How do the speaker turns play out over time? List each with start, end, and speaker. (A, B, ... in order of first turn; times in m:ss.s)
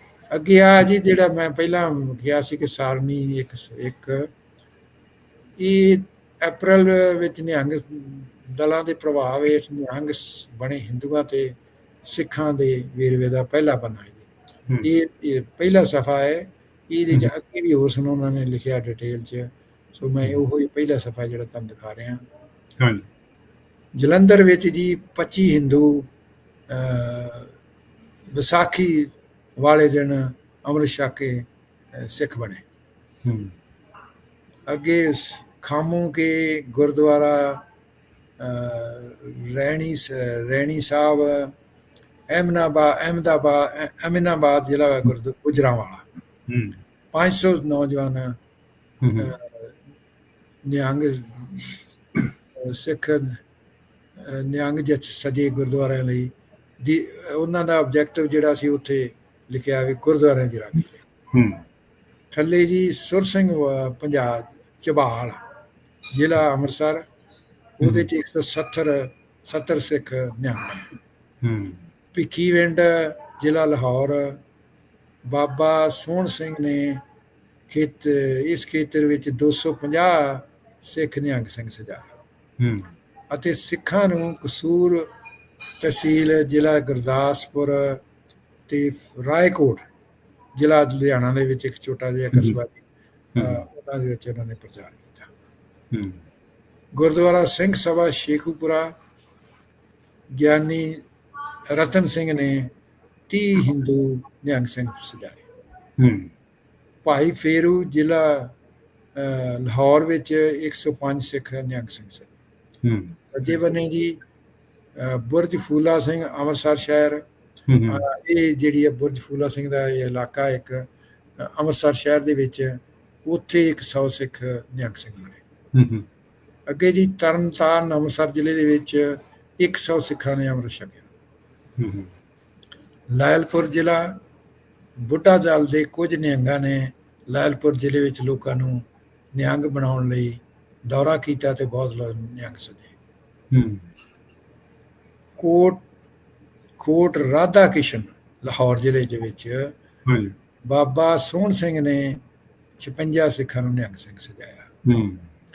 0:00.3-0:04.3 A
0:05.6-0:14.3 A
0:14.8-0:22.2 A
0:22.8-0:23.1 B
0:24.0-0:26.1 A
0:26.7-0:27.6 A
0:28.3-0:32.6 A
0:33.2-0:33.6 B
0:34.7-0:37.6 A
0:38.4-0:41.5 A
0:42.3-0:46.1 A
0:46.5-0:46.8 B
0:47.1-0:48.4 A
0:49.0-0:49.3 B
0:49.2-0:49.7 A
0:50.6-0:51.8 A
0:52.6-0:53.4 A
0:54.2-1:01.0 A
1:01.3-1:01.6 B
1:02.3-1:05.4 A
1:06.1-1:07.1 A
1:07.8-1:10.9 A
1:07.8-1:08.1 B
1:11.4-1:11.8 B
1:12.1-1:14.4 A
1:15.2-1:17.0 A
1:17.7-1:22.1 A
1:22.6-1:22.9 B
1:23.3-1:25.1 A
1:25.8-1:28.0 A
1:28.7-1:29.8 A
1:30.6-1:32.8 A
1:33.4-1:33.6 B
1:33.4-1:35.3 A
1:35.9-1:36.2 B
1:36.9-1:39.0 A
1:40.3-1:41.0 A
1:41.7-1:42.7 A
1:43.3-1:45.4 A
1:46.0-1:46.3 B
1:47.0-1:48.6 A
1:49.2-1:52.3 A
1:52.8-1:53.2 B
1:53.3-1:54.2 A
1:55.0-1:57.2 A
1:57.7-1:58.0 B
1:57.9-2:00.9 A
2:01.4-2:05.4 A
2:05.7-2:06.1 B
2:06.7-2:11.1 A
2:11.8-2:12.1 B
2:13.1-2:14.2 A
2:15.0-2:22.9 A
2:23.5-2:23.9 B
2:25.4-2:25.8 A
2:26.8-2:29.8 A
2:30.0-2:30.4 B
2:30.7-2:32.2 A
2:32.8-2:34.7 A
2:34.8-2:35.3 B